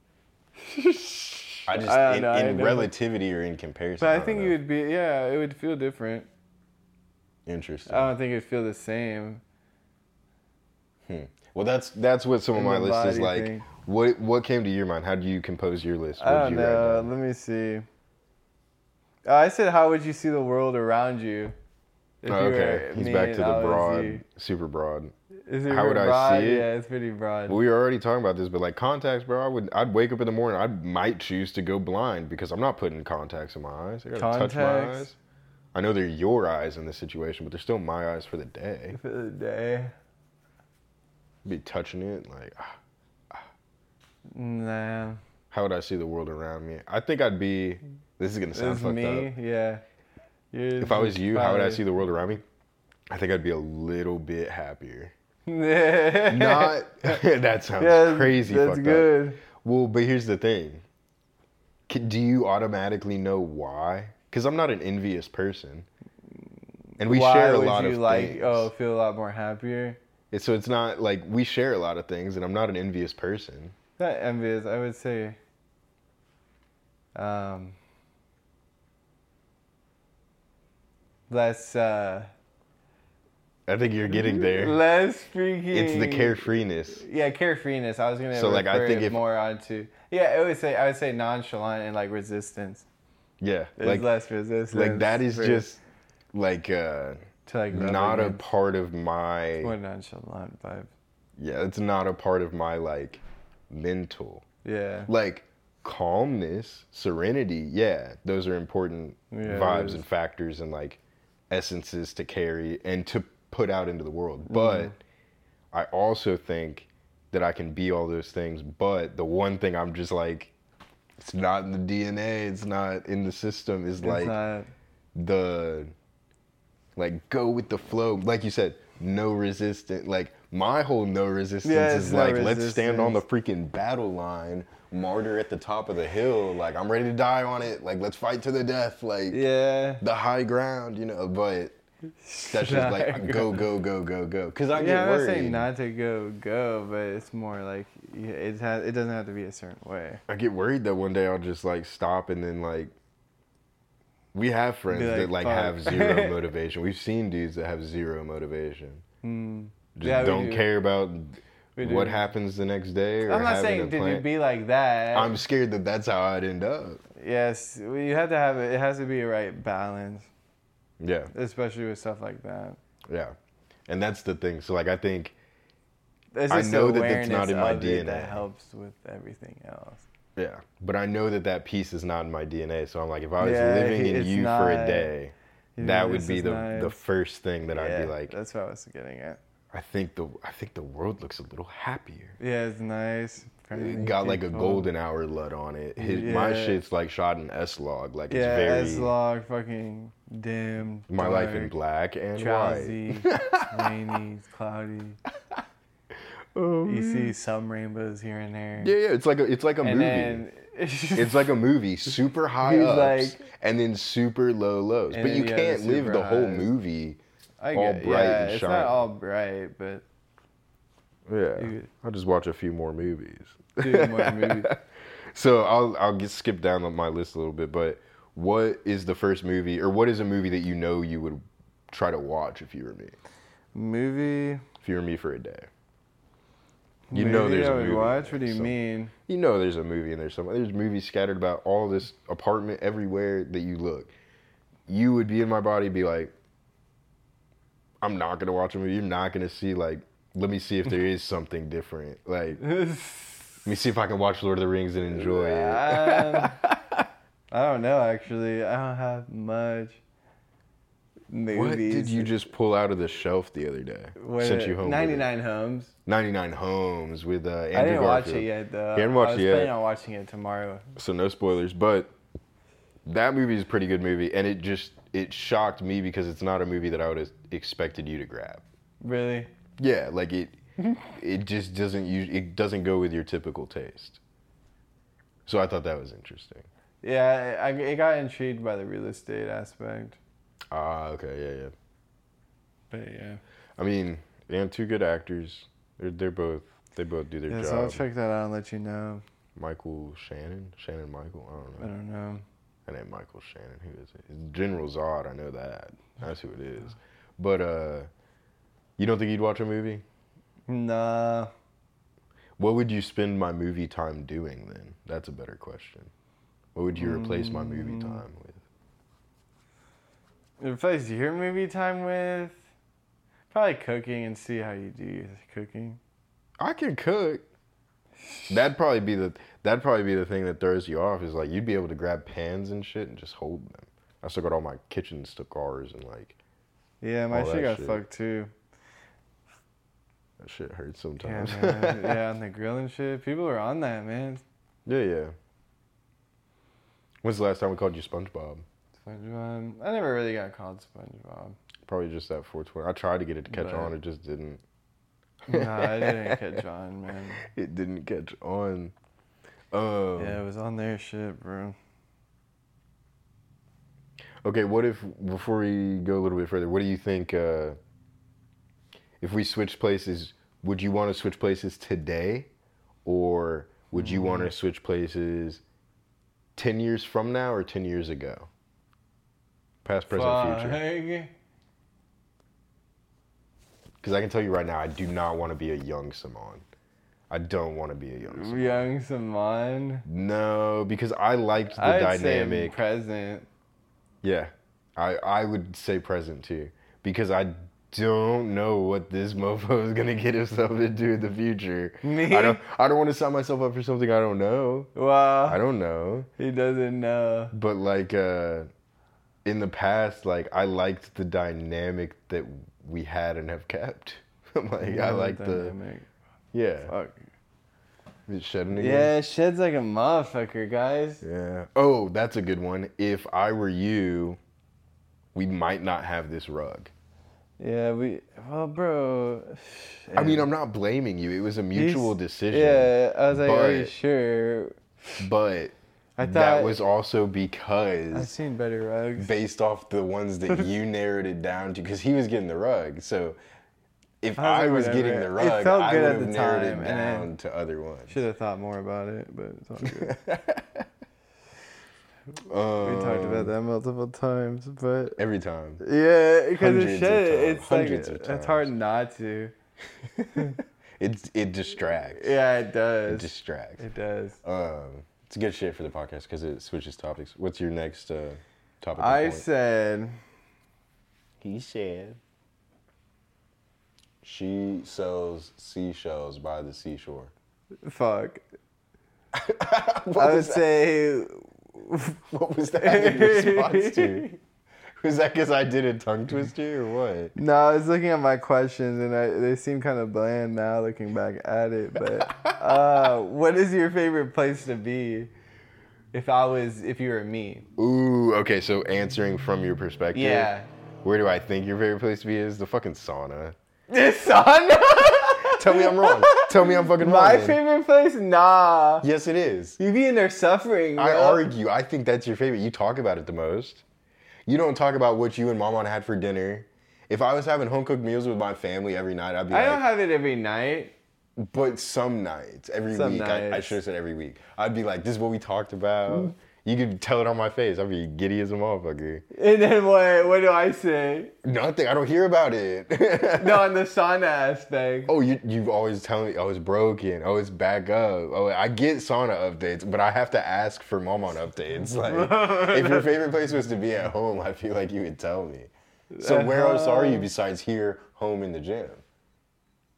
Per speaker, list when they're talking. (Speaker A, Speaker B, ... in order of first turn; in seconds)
Speaker A: 0.6-2.9, 4.0-6.3, 7.9-9.4, 12.5-13.7, 16.2-17.9, 19.2-21.5, 22.2-24.2, 25.4-27.6, 34.1-35.1, 38.9-39.9, 44.3-45.2, 48.5-49.8, 50.5-51.8, 55.5-57.2, 57.8-59.4, 67.0-70.0, 74.0-75.4, 77.1-77.8, 81.3-82.3, 84.1-92.8, 93.8-95.7, 97.5-98.4, 99.6-100.9, 104.6-105.1, 109.3-110.0, 114.5-114.9, 124.0-124.7, 131.6-133.2, 139.3-140.0, 142.2-143.6, 144.7-150.2, 154.9-156.4, 159.2-160.7, 161.8-162.3, 163.2-165.3, 167.2-170.3, 171.3-172.8, 176.3-180.1, 183.4-185.1, 185.8-187.0, 187.7-189.4, 192.4-194.9, 196.0-196.8, 198.3-201.7, 202.3-205.2, 206.8-208.9, 209.8-211.5, 212.6-213.4, 215.1-216.7, 217.6-220.0, 221.6-221.9, 223.8-224.7, 233.7-234.6, 237.1-239.1, 252.6-253.6, 255.1-256.6, 257.5-260.0, 261.3-262.3, 264.2-265.9, 267.7-270.9, 279.0-279.5, 287.0-290.2, 292.9-293.4, 297.5-299.2, 301.8-302.4, 310.7-311.5, 316.9-318.2, 320.6-322.6, 323.5-326.0, 337.0-338.5, 341.2-344.4, 349.0-351.6, 353.5-353.9, 355.5-357.4, 360.2-361.8, 373.9-374.5, 380.1-381.3, 388.3-390.0, 391.7-393.5, 402.0-402.6, 404.9-405.6, 406.4-407.5, 414.8-416.1, 416.9-417.3, 418.7-421.2, 427.6-430.5, 431.7-434.8, 436.2-436.8, 438.1-439.3, 444.4-447.3, 448.1-450.1, 452.8-455.2, 455.8-459.5, 462.2-464.4, 469.0-470.2, 477.8-478.4, 480.1-482.2, 482.8-484.3, 487.4-495.3, 496.1-497.7, 500.1-500.7, 503.9-509.1, 509.8-511.4, 519.5-520.9, 522.9-523.8, 529.3-531.3, 533.4-535.1, 542.0-543.1, 546.1-547.3
Speaker B: 1.7-4.6, 7.5-8.1, 11.1-17.1, 22.3-25.1, 25.7-26.7, 27.5-35.1, 35.7-39.0, 41.4-42.8, 45.5-49.3, 50.8-52.4, 53.1-55.1, 56.2-60.8, 61.9-65.9, 67.0-68.7, 70.3-73.7, 83.7-84.8, 85.7-87.0, 88.3-89.2, 93.4-94.1, 94.7-95.8, 96.3-99.7, 101.4-104.4, 105.1-114.9, 115.7-120.5, 121.2-124.3, 125.1-125.9, 127.0-139.4, 140.0-141.8, 142.4-145.7, 150.3-152.9, 154.3-159.0, 159.9-164.3, 165.1-167.0, 171.0-171.3, 173.1-173.3, 173.9-175.3, 176.5-178.4, 180.3-188.3, 189.7-192.4, 193.7-199.1, 201.1-203.9, 206.5-207.3, 208.8-210.4, 211.1-217.2, 217.7-219.0, 221.3-233.1, 234.8-235.7, 237.1-238.7, 239.3-244.1, 244.9-246.3, 248.0-252.6, 253.6-256.8, 261.5-265.3, 266.1-269.7, 270.9-272.1, 273.1-278.6, 279.8-284.2, 285.5-286.6, 290.7-291.7, 293.8-298.0, 299.6-301.9, 302.9-308.1, 309.0-310.0, 312.6-316.1, 316.7-318.6, 326.6-327.4, 328.5-336.4, 337.3-338.0, 340.4-342.2, 344.9-345.3, 347.2-348.6, 351.9-354.6, 355.5-356.6, 357.4-358.9, 359.7-360.4, 364.4-367.8, 369.2-372.5, 373.0-375.6, 376.6-378.5, 379.8-380.8, 384.0-386.6, 387.3-388.9, 390.0-392.8, 394.2-404.9, 405.5-406.3, 407.5-408.7, 409.4-415.7, 416.5-416.9, 418.3-419.1, 421.2-424.4, 425.3-426.9, 430.1-433.9, 435.2-438.3, 439.2-443.4, 444.2-448.2, 449.8-450.9, 452.5-453.5, 455.2-455.8, 456.6-458.7, 460.2-462.3, 463.1-463.8, 464.4-469.4, 471.4-472.2, 474.2-477.3, 479.3-480.7, 482.3-484.4, 485.0-487.3, 492.2-492.6, 497.8-500.5, 501.0-503.6, 505.4-507.6, 509.0-509.8, 511.0-513.8, 514.5-519.8, 521.4-529.2, 531.4-533.7, 535.0-549.0